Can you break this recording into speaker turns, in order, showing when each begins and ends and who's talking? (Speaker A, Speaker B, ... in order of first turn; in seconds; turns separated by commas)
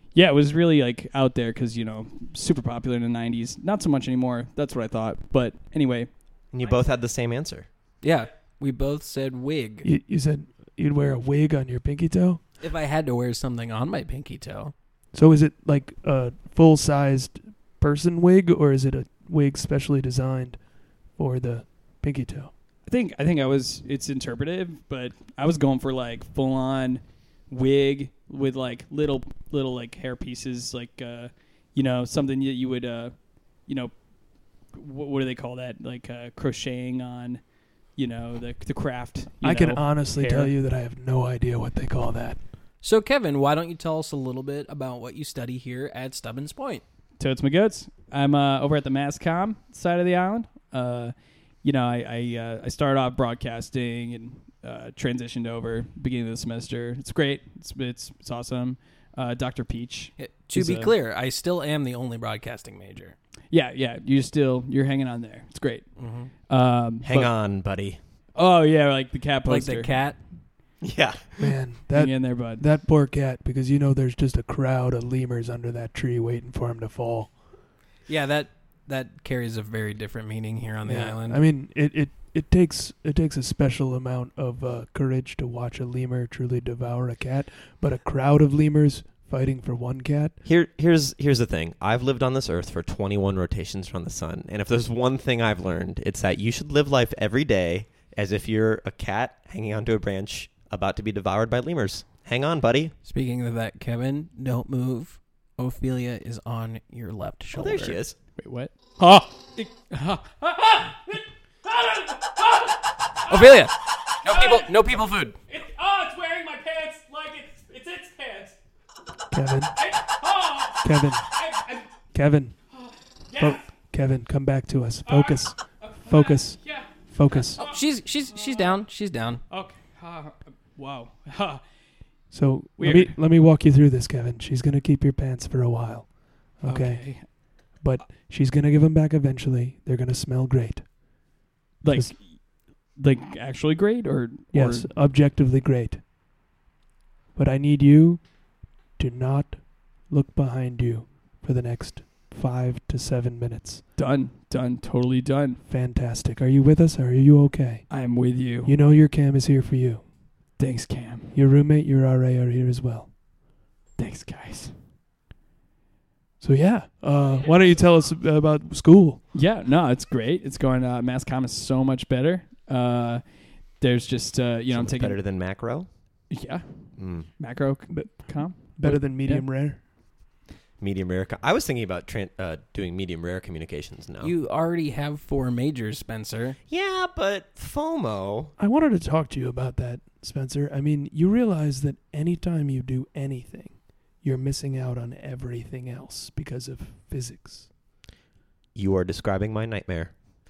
Speaker A: 0.1-6.1, Speaker B: 6.5-7.7, Speaker C: 8.0-9.8, Speaker D: 9.8-12.4, Speaker C: 12.6-14.7, Speaker D: 15.1-20.6, Speaker D: 21.2-22.5, Speaker A: 22.9-33.1, Speaker A: 33.6-33.9, Speaker A: 34.7-37.4, Speaker A: 38.0-40.5, Speaker D: 39.4-42.4, Speaker C: 42.8-46.8, Speaker A: 47.2-60.9, Speaker C: 60.2-63.1, Speaker A: 63.5-67.3, Speaker C: 66.0-66.3, Speaker B: 67.0-68.0, Speaker A: 68.3-70.0, Speaker C: 69.5-70.2, Speaker B: 70.8-71.5, Speaker D: 71.4-77.3, Speaker A: 71.9-72.6, Speaker C: 78.1-81.4, Speaker D: 80.8-90.4, Speaker B: 90.4-102.9, Speaker C: 103.0-108.0, Speaker B: 107.5-108.2, Speaker A: 108.4-118.6, Speaker C: 113.3-115.3, Speaker D: 119.3-119.8, Speaker A: 119.8-121.9, Speaker D: 120.8-121.3, Speaker D: 122.1-122.6, Speaker A: 122.7-123.7, Speaker D: 123.4-127.6, Speaker A: 125.0-128.8, Speaker C: 127.5-129.4, Speaker A: 129.5-131.6, Speaker D: 132.3-140.9, Speaker A: 132.8-133.1, Speaker A: 136.6-137.3, Speaker A: 141.8-144.9, Speaker D: 144.5-146.0, Speaker D: 147.3-148.2, Speaker D: 149.0-153.8, Speaker A: 153.9-155.6, Speaker D: 155.7-157.9, Speaker A: 157.9-158.8, Speaker D: 158.6-160.0, Speaker A: 160.6-161.4, Speaker D: 161.3-163.1, Speaker A: 164.0-164.8, Speaker D: 166.4-169.2, Speaker A: 169.3-175.2, Speaker B: 174.7-175.9, Speaker A: 176.3-179.5, Speaker B: 177.0-177.3, Speaker D: 177.9-179.8, Speaker B: 180.8-184.3, Speaker C: 184.2-186.6, Speaker B: 186.7-188.5, Speaker D: 188.6-197.7, Speaker B: 198.7-200.1